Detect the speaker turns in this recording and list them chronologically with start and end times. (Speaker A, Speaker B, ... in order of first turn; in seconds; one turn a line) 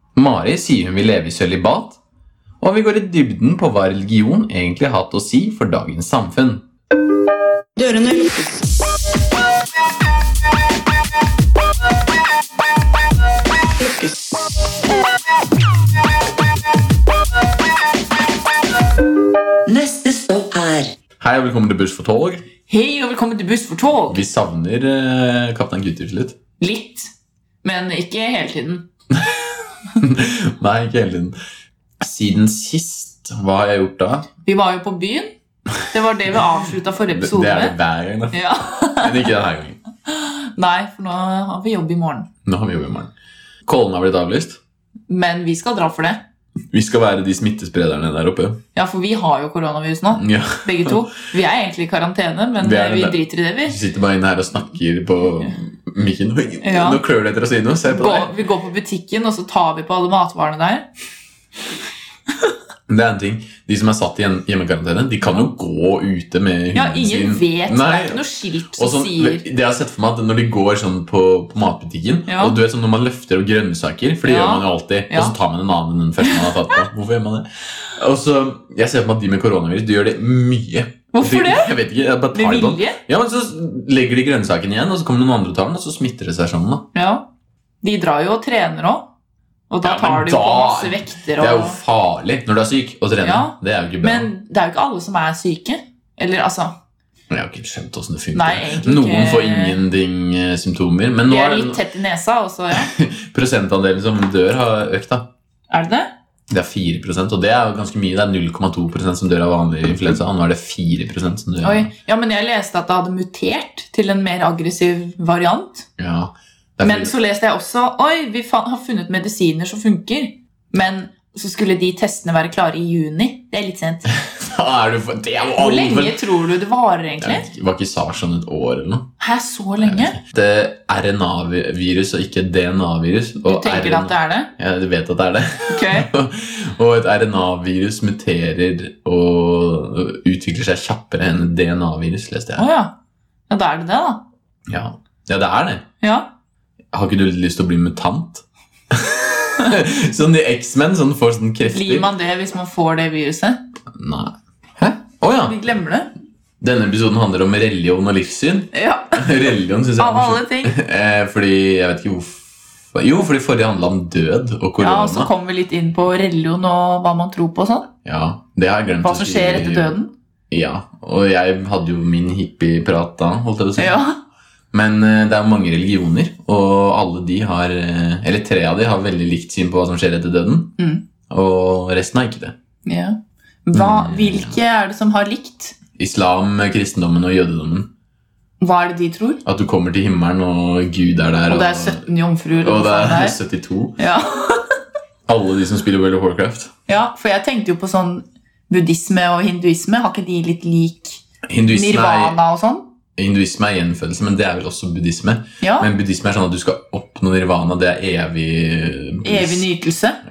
Speaker A: 0.1-2.0
Speaker A: 2.6-6.7
Speaker B: 7.8-8.6
Speaker B: 13.8-14.5
Speaker B: 19.7-20.9
Speaker A: 21.2-22.5
Speaker C: 22.7-24.2
Speaker A: 24.1-26.4
Speaker C: 26.6-27.1
Speaker C: 27.6-28.9
Speaker A: 30.0-31.4
Speaker A: 32.0-34.3
Speaker C: 34.5-35.3
Speaker C: 35.9-37.8
Speaker A: 37.1-39.8
Speaker C: 38.3-39.3
Speaker C: 40.1-42.3
Speaker A: 42.5-43.1
Speaker A: 43.7-44.6
Speaker C: 45.1-46.2
Speaker A: 46.7-48.6
Speaker C: 48.8-53.8
Speaker A: 50.1-51.0
Speaker A: 52.6-58.3
Speaker C: 56.6-57.0
Speaker C: 57.9-60.9
Speaker A: 62.9-68.2
Speaker C: 66.7-69.4
Speaker A: 68.8-86.9
Speaker C: 72.3-72.6
Speaker C: 74.2-75.3
Speaker C: 76.2-76.5
Speaker C: 81.1-81.7
Speaker C: 82.3-83.0
Speaker C: 86.9-87.3
Speaker C: 87.8-89.1
Speaker C: 89.7-91.8
Speaker A: 89.8-94.3
Speaker C: 93.2-96.8
Speaker A: 97.3-101.8
Speaker C: 98.3-99.8
Speaker C: 101.2-102.9
Speaker A: 102.8-105.3
Speaker C: 105.7-106.1
Speaker A: 106.5-111.9
Speaker C: 111.6-115.9
Speaker A: 116.0-117.1
Speaker C: 116.8-124.1
Speaker A: 124.1-126.2
Speaker C: 125.6-127.5
Speaker A: 127.2-129.1
Speaker C: 129.2-130.2
Speaker A: 129.8-142.7
Speaker C: 133.4-134.5
Speaker C: 135.7-136.1
Speaker C: 142.6-142.9
Speaker C: 143.5-144.2
Speaker A: 144.7-145.9
Speaker C: 146.0-146.3
Speaker A: 146.9-152.1
Speaker C: 151.7-153.7
Speaker A: 153.9-155.6
Speaker C: 155.5-156.1
Speaker A: 156.6-165.3
Speaker C: 158.7-159.4
Speaker C: 160.0-160.8
Speaker C: 164.8-167.9
Speaker A: 168.0-169.9
Speaker C: 169.0-170.1
Speaker A: 170.5-174.0
Speaker C: 173.8-174.2
Speaker A: 174.7-180.8
Speaker A: 181.3-182.6
Speaker C: 182.8-185.8
Speaker A: 183.7-184.6
Speaker A: 186.0-187.9
Speaker C: 188.6-189.4
Speaker A: 189.4-192.1
Speaker C: 191.5-193.4
Speaker A: 192.6-194.0
Speaker C: 194.0-194.7
Speaker A: 195.3-196.7
Speaker C: 196.9-202.9
Speaker A: 201.5-202.4
Speaker A: 203.2-209.7
Speaker C: 205.6-205.9
Speaker C: 209.2-210.2